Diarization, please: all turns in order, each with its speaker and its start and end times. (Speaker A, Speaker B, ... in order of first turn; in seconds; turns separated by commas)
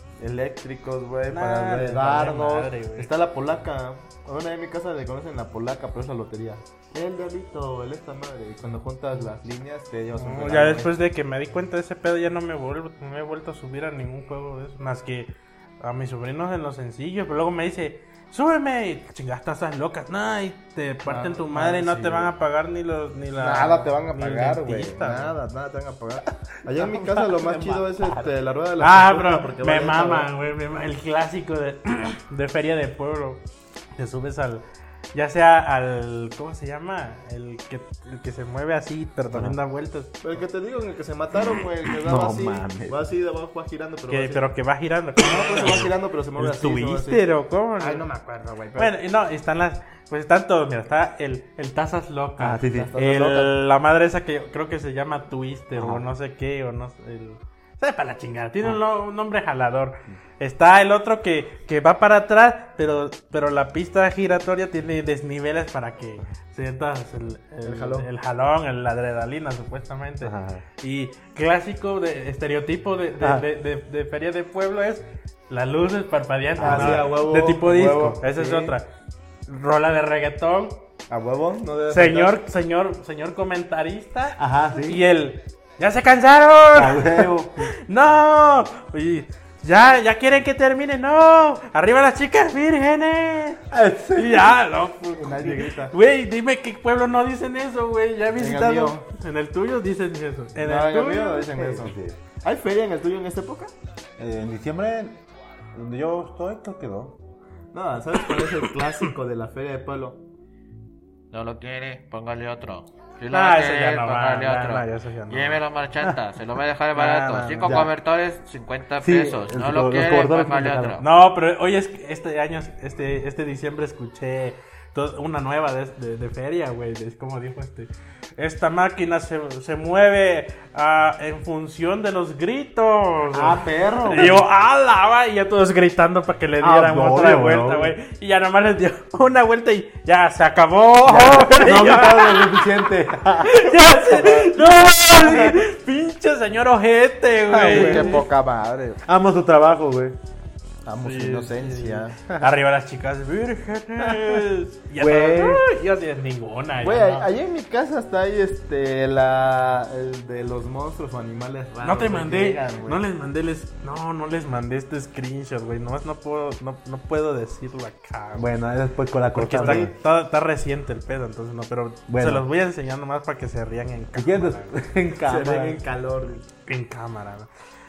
Speaker A: 0.2-11.0, Speaker B: 1.3-3.1, Speaker B: 10.2-25.3, Speaker A: 21.1-22.3, Speaker A: 23.4-30.3, Speaker C: 26.8-28.3, Speaker B: 28.8-33.4, Speaker B: 34.0-40.2, Speaker A: 40.2-44.4, Speaker C: 42.0-43.0, Speaker B: 44.1-48.0, Speaker A: 45.2-49.0, Speaker B: 48.8-78.9, Speaker C: 52.4-52.9, Speaker A: 52.6-53.6, Speaker C: 55.8-56.0, Speaker A: 67.6-68.1, Speaker C: 70.2-70.6, Speaker C: 73.2-73.5, Speaker C: 76.6-77.1, Speaker A: 76.6-78.8, Speaker B: 79.5-80.8, Speaker A: 81.1-82.4, Speaker B: 81.9-101.5, Speaker C: 84.4-85.0, Speaker C: 86.7-87.7, Speaker C: 93.7-94.5, Speaker A: 95.1-95.9, Speaker A: 98.4-99.0, Speaker A: 100.6-103.7, Speaker C: 101.5-102.2, Speaker C: 104.2-105.2, Speaker C: 105.7-107.2, Speaker A: 107.7-110.2, Speaker D: 111.3-121.0, Speaker B: 113.3-115.6, Speaker B: 116.9-117.8, Speaker C: 117.6-117.9, Speaker C: 119.0-121.0, Speaker B: 121.0-142.8, Speaker C: 133.3-134.4, Speaker C: 136.6-137.9, Speaker C: 141.0-144.5, Speaker B: 143.4-148.2, Speaker C: 145.2-145.6, Speaker C: 147.5-148.3, Speaker A: 147.5-149.0, Speaker C: 149.0-150.2, Speaker A: 150.8-152.2, Speaker B: 151.0-157.3, Speaker C: 154.0-154.4, Speaker C: 155.0-155.6, Speaker A: 156.8-163.0, Speaker B: 161.8-168.5, Speaker C: 168.3-169.9, Speaker B: 169.3-174.7, Speaker A: 169.5-169.9, Speaker C: 172.1-172.4, Speaker C: 174.1-175.8, Speaker A: 175.2-176.5, Speaker B: 176.7-177.5